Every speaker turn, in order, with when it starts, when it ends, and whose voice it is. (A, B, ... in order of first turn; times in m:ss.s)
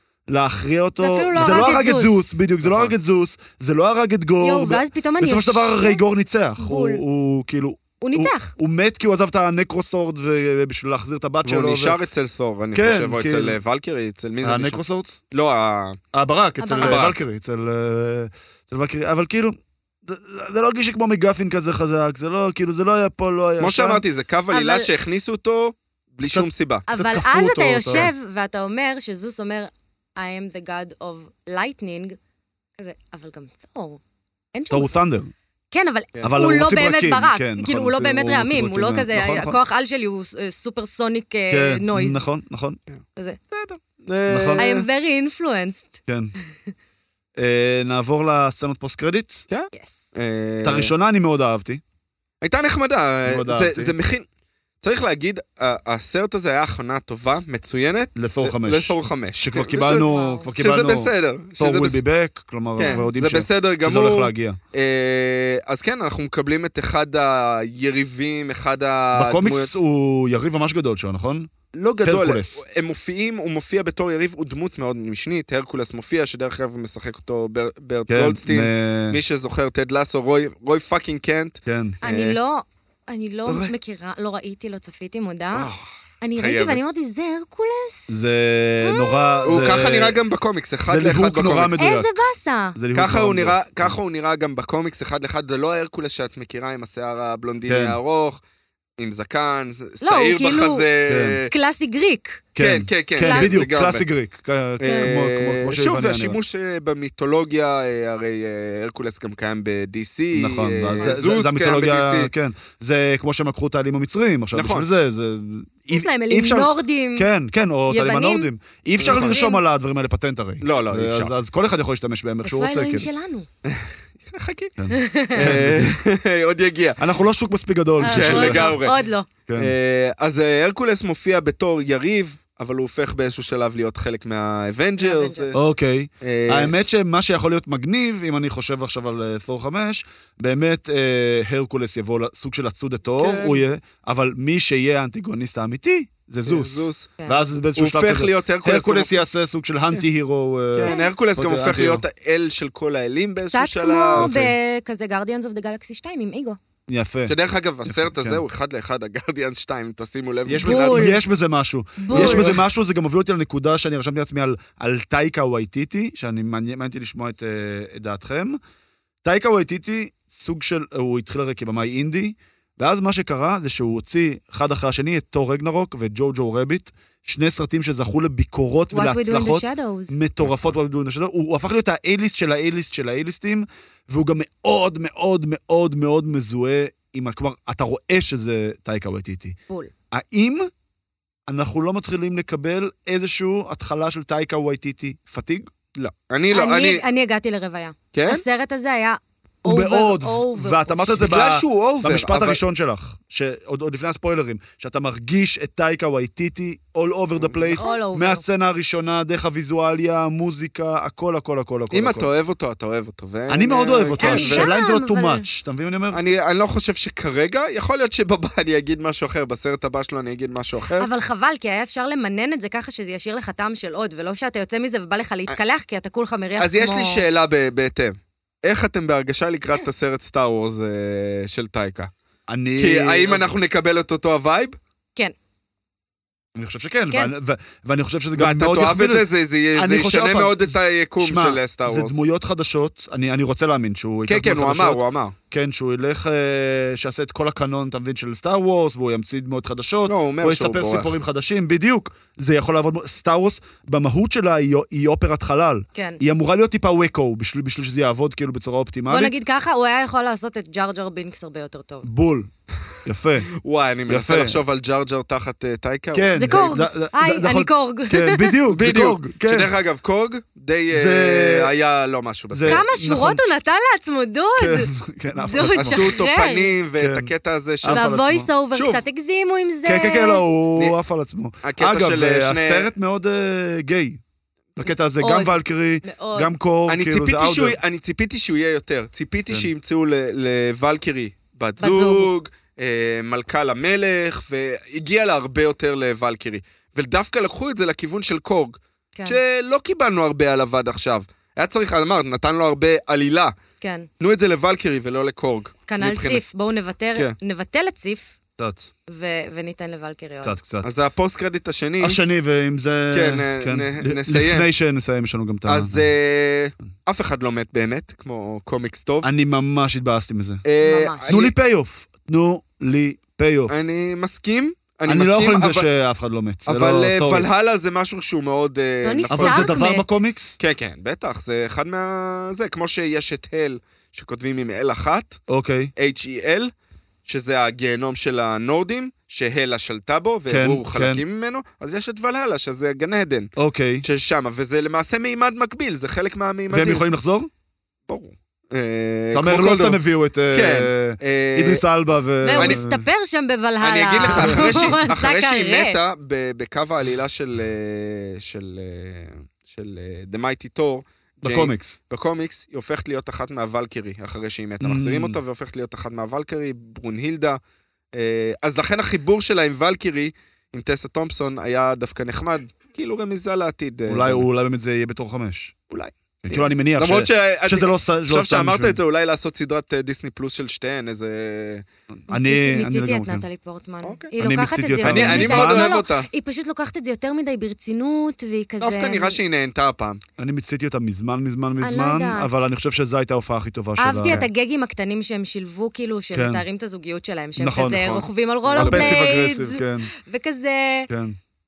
0:00.3-0:12.0 A
0:01.0-0:02.4 B
0:01.4-0:01.6 C
0:02.6-0:02.9 C
0:04.4-0:06.0 B
0:06.6-0:07.0 B
0:08.0-0:08.5 B
0:11.4-0:16.0 C
0:12.7-0:13.6 A
0:14.4-0:15.2 A
0:16.1-0:24.0 A
0:16.6-0:17.0 B
0:16.8-0:17.2 C
0:23.6-0:26.8 C
0:24.5-0:24.9 B
0:26.2-0:28.1 A
0:26.9-0:32.2 B
0:32.8-0:34.0 B
0:34.5-0:34.9 B
0:34.7-0:35.3 A
0:35.7-0:42.2 B
0:36.2-0:39.6 A
0:41.5-0:42.8 A
0:43.5-0:44.9 C
0:44.3-0:44.6 A
0:44.6-0:46.0 B
0:46.1-0:46.3 A
0:47.4-0:49.5 A
0:49.5-0:50.9 C
0:49.7-0:50.0 B
0:50.6-0:51.8 A
0:52.4-0:54.2 C
0:53.2-0:54.0 A
0:54.8-1:02.0 C
0:58.2-1:04.6 A
0:59.9-1:00.5 B
1:02.8-1:09.7 C
1:02.8-1:03.1 B
1:09.1-1:11.5 A
1:11.7-1:22.4 C
1:12.0-1:12.6 A
1:18.1-1:19.2 A
1:21.7-1:22.0 A
1:22.0-1:25.7 B
1:23.5-1:23.7 C
1:25.5-1:26.8 C
1:26.2-1:28.1 B
1:28.1-1:30.2 A
1:28.8-1:29.6 B
1:29.5-1:31.8 C
1:30.9-1:32.1 A
1:31.8-1:32.8 B
1:32.8-1:34.0 A
1:32.9-1:38.4 C
1:37.7-1:38.0 A
1:39.0-1:41.5 C
1:40.0-1:40.9 B
1:41.1-1:41.4 A
1:41.5-1:42.4 B
1:42.6-1:46.4 A
1:42.6-1:44.0 C
1:43.2-1:43.6 B
1:44.8-1:52.3 C
1:44.8-1:45.1 B
1:50.3-2:03.1 A
1:54.5-1:54.9 C
1:55.9-1:57.3 B
1:57.9-1:58.5 B
1:59.0-1:59.4 C
1:59.0-1:59.6 B
2:00.6-2:01.3 C
2:02.4-2:03.5 B
2:03.7-2:04.7 C
2:04.8-2:06.0 A
2:04.9-2:05.5 B
2:05.3-2:07.0 C
2:07.0-2:08.8 A
2:08.0-2:09.3 B
2:08.1-2:09.0 C
2:09.5-2:09.7 A
2:09.6-2:15.6 C
2:15.0-2:15.5 B
2:15.5-2:32.0 A
2:16.2-2:16.8 C
2:23.2-2:23.6 C
2:26.4-2:27.2 C
2:27.8-2:29.3 C
2:30.7-2:34.4 C
2:30.8-2:31.1 B
2:33.5-2:36.6 B
2:34.2-2:34.5 A
2:36.9-2:38.4 A
2:37.3-2:41.1 C
2:40.5-2:48.6 A
2:40.5-2:41.2 B
2:42.0-2:42.5 B
2:42.1-2:42.6 C
2:49.2-3:09.6 A
2:58.9-3:00.1 B
3:10.1-3:10.7 A
3:11.5-3:15.7 A
3:16.0-3:17.0 C
3:16.5-3:21.4 B
3:18.1-3:18.4 C
3:19.6-3:32.3 A
3:21.2-3:22.6 C
3:27.4-3:27.8 C
3:27.8-3:28.4 B
3:31.9-3:34.7 C
3:33.5-3:36.2 A
3:34.2-3:35.4 B
3:36.1-3:41.1 C
3:41.0-3:47.2 B
3:46.6-3:52.1 C
3:52.5-3:53.5 A
3:52.8-3:54.8 C
3:56.6-4:19.4 A
3:58.4-4:02.2 C
4:04.3-4:05.4 C
4:10.1-4:11.1 C
4:15.9-4:16.2 B
4:19.1-4:22.1 B
4:22.0-4:22.5 A
4:23.0-4:23.5 A
4:23.6-4:26.9 C
4:24.1-4:24.6 A
4:26.1-4:29.7 A
4:26.4-4:28.6 B
4:28.7-4:32.9 C
4:30.9-4:31.7 A
4:32.5-4:33.4 A
4:32.6-4:36.8 B
4:34.6-4:36.1 A
4:35.8-4:38.1 C
4:37.0-4:38.5 A
4:37.9-4:40.4 B
4:38.7-4:39.0 C
4:39.8-4:44.2 A
4:41.6-4:42.9 C
4:44.8-4:47.8 A
4:45.2-4:46.5 B
4:46.9-5:03.5 C
4:51.8-4:52.3 B
4:59.2-4:59.4 B
5:03.8-5:04.1 B
5:04.2-5:06.4 C
5:05.9-5:08.4 B
5:08.6-5:08.9 A
5:09.1-5:10.6 B
5:10.4-5:10.9 A
5:10.8-5:12.2 C
5:12.0-5:16.1 A
5:13.1-5:14.7 C
5:15.7-5:19.3 C
5:19.2-5:20.6 A
5:20.6-5:21.5 C
5:20.8-5:21.4 B
5:21.3-5:23.7 A
5:23.7-5:25.9 C
5:25.1-5:27.5 A
5:26.7-5:29.7 C
5:29.0-5:30.1 B
5:29.3-5:30.6 A
5:30.6-5:35.4 C
5:35.5-5:35.9 A
5:36.0-5:36.7 C
5:37.3-5:43.5 C
5:40.5-5:41.2 A
5:43.6-5:44.0 A
5:44.0-5:47.0 C
5:46.7-5:47.5 A
5:48.1-5:51.8 C
5:49.3-5:53.0 A
5:52.4-5:56.0 B
5:52.6-5:52.8 C
5:53.8-6:07.6 C
5:54.4-5:54.9 A
6:01.4-6:02.0 A
6:04.8-6:05.4 A
6:08.1-6:14.4 C
6:14.1-6:15.7 A
6:15.9-6:21.8 C
6:16.4-6:19.0 A
6:22.3-6:23.4 A
6:22.3-6:29.4 B
6:24.0-6:24.3 C
6:24.4-6:25.9 A
6:25.0-6:26.3 C
6:28.8-6:30.2 C
6:30.4-6:34.4 A
6:31.8-6:32.6 B
6:34.0-6:41.1 B
6:36.3-6:36.6 A
6:37.6-6:40.1 A
6:38.7-6:39.4 C
6:41.1-6:41.4 A